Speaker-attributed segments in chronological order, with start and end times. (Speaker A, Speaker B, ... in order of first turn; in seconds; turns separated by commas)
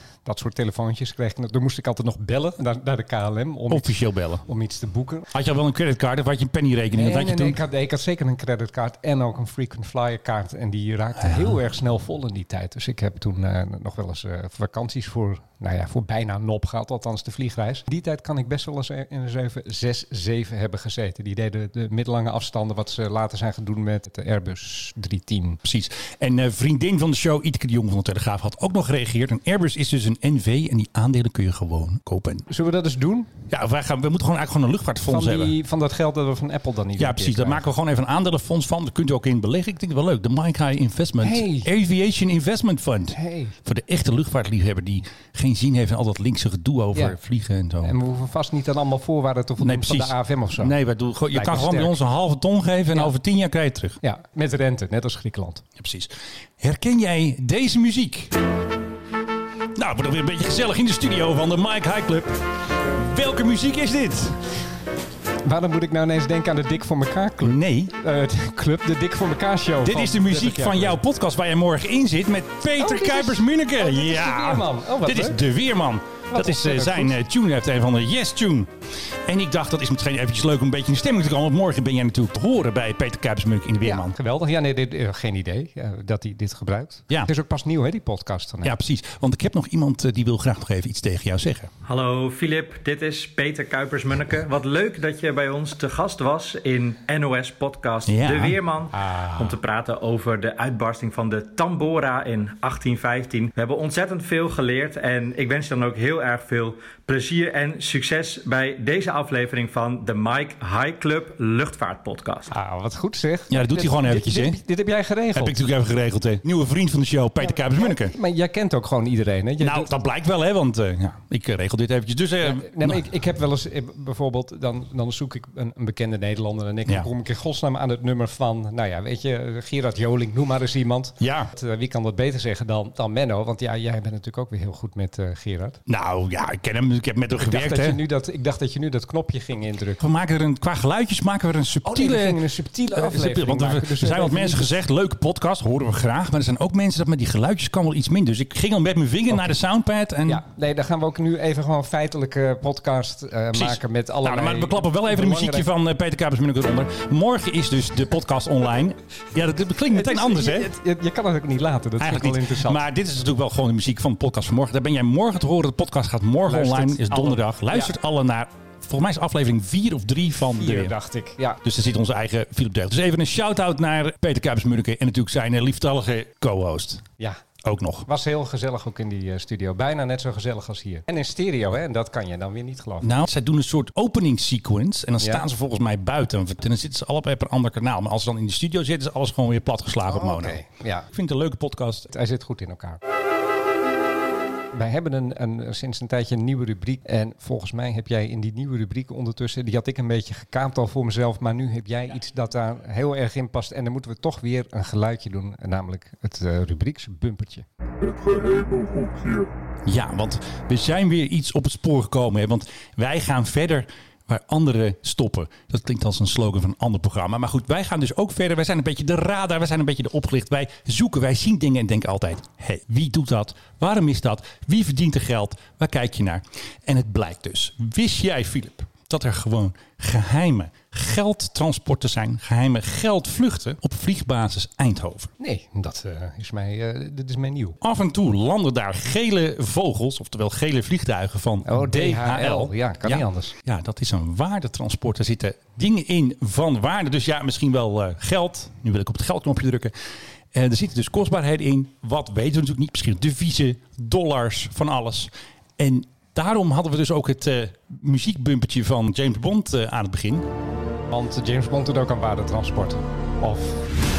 Speaker A: 0.2-5.3, Speaker B: 3.7-4.4, Speaker B: 5.3-7.6, Speaker A: 6.9-25.6, Speaker B: 11.2-11.6, Speaker B: 25.6-32.5, Speaker A: 32.5-33.3, Speaker B: 33.5-35.5, Speaker A: 35.1-37.6, Speaker B: 37.0-48.0, Speaker A: 41.2-41.7, Speaker A: 43.1-43.5, Speaker A: 47.8-50.7, Speaker B: 49.6-54.0, Speaker A: 51.3-52.0, Speaker A: 54.0-55.6, Speaker B: 55.8-58.4, Speaker B: 59.8-64.5, Speaker A: 65.4-71.0, Speaker B: 67.4-67.9, Speaker B: 69.8-78.7, Speaker A: 72.8-75.4, Speaker A: 76.3-77.2, Speaker B: 79.2-84.2, Speaker A: 83.8-88.8, Speaker B: 88.6-91.7, Speaker C: 91.8-112.5, Speaker B: 98.1-98.6, Speaker A: 98.9-99.5, Speaker A: 112.5-115.5, Speaker B: 113.5-114.6, Speaker B: 115.3-118.1, Speaker A: 117.4-119.9, Speaker B: 119.6-123.1, Speaker A: 122.4-135.8, Speaker B: 131.2-131.5, Speaker B: 135.9-138.0, Speaker A: 137.4-140.0, Speaker B: 140.0-150.4, Speaker A: 141.8-144.7, Speaker A: 150.2-155.7, Speaker B: 153.5-160.7, Speaker A: 159.8-162.8, Speaker B: 162.0-170.9, Speaker A: 166.5-167.9, Speaker A: 170.6-171.6, Speaker B: 171.6-177.0, Speaker B: 177.6-178.1, Speaker A: 178.1-183.1, Speaker B: 183.0-192.1, Speaker A: 185.2-185.4, Speaker A: 190.1-191.1, Speaker A: 192.1-193.0, Speaker A: 194.7-207.6, Speaker B: 208.0-235.3, Speaker A: 235.4-237.8, Speaker B: 237.8-249.9, Speaker A: 241.6-243.5, Speaker B: 250.5-260.5, Speaker A: 261.1-263.9